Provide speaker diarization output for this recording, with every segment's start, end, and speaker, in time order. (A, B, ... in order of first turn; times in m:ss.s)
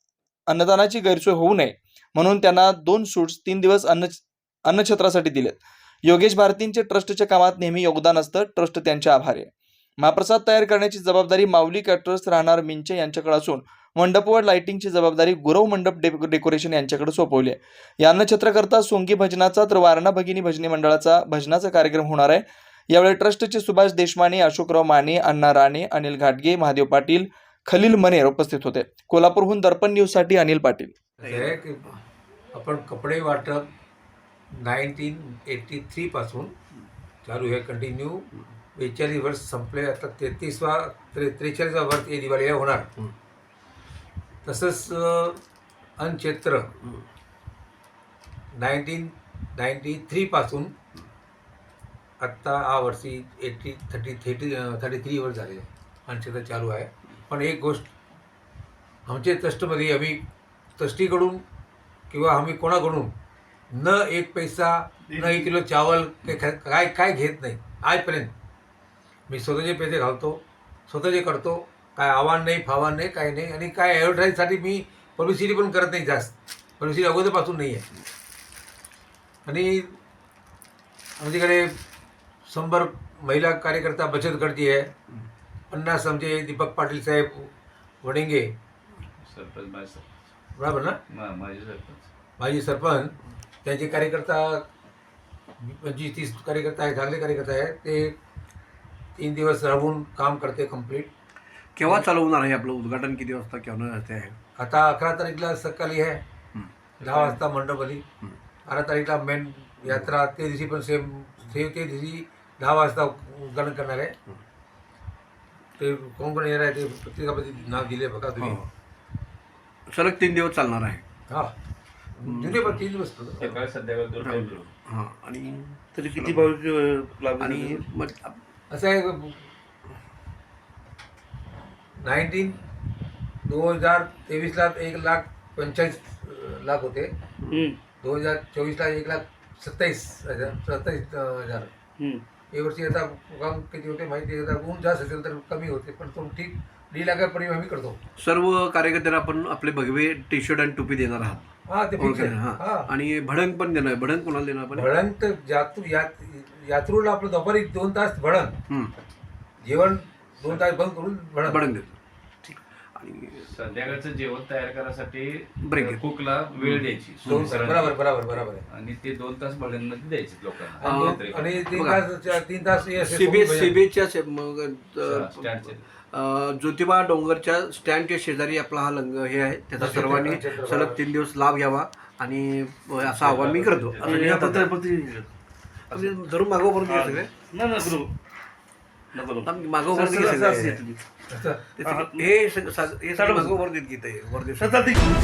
0:00.5-0:30.9 A
0:31.2-0:32.0 B
0:31.2-0:31.6 C
0:32.5-0:33.7 B
0:34.5-0:36.5 B
0:37.2-0:42.9 B
0:44.4-0:45.4 B
0:46.0-0:46.7 B
0:48.5-0:50.7 B
0:52.2-0:57.9 B
0:59.0-1:00.2 B
1:00.8-1:01.4 B
1:02.1-1:03.1 B
1:03.7-1:08.3 B
1:05.1-1:05.5 D
1:09.3-1:17.9 B
1:19.4-1:20.0 B
1:21.2-1:21.8 B
1:22.4-1:24.9 B
1:25.7-1:28.5 B
1:29.2-1:30.0 E
1:30.6-1:31.0 B
1:31.1-1:32.1 E
1:32.4-1:34.6 B
1:35.6-1:38.2 B
1:39.2-1:41.1 B
1:41.8-1:44.4 C
1:44.6-1:46.2 B
1:47.0-1:47.4 E
1:47.0-1:48.0 B
1:48.6-1:54.1 B
1:49.9-1:50.1 C
1:55.8-1:58.6 B
1:58.4-1:58.7 C
1:59.9-2:01.0 C
2:02.2-2:03.6 B
2:02.3-2:02.6 C
2:03.4-2:04.7 E
2:04.2-2:06.5 C
2:06.0-2:07.9 D
2:07.4-2:08.4 C
2:08.7-2:09.4 B
2:12.0-2:12.6 B
2:13.4-2:17.1 B
2:17.4-2:17.7 C
2:17.5-2:17.8 D
2:18.0-2:21.7 B
2:22.5-2:28.0 B
2:28.2-2:34.9 C
2:31.7-2:32.9 B
2:34.7-2:38.6 B
2:39.6-2:41.6 B
2:41.4-2:43.5 C
2:43.4-2:51.7 E
2:45.6-2:46.0 C
2:46.6-2:47.6 C
2:47.2-2:48.6 B
2:50.8-2:53.8 B
2:50.8-2:52.4 C
2:52.9-3:04.8 C
2:55.0-2:55.8 E
2:59.8-3:01.0 B
3:03.0-3:05.3 D
3:05.9-3:06.2 D
3:05.9-3:07.3 C
3:06.8-3:08.1 D
3:09.1-3:11.0 D
3:09.4-3:10.9 C
3:11.3-3:11.6 B
3:11.7-3:14.8 C
3:11.8-3:12.3 D
3:13.1-3:13.6 D
3:14.6-3:15.0 D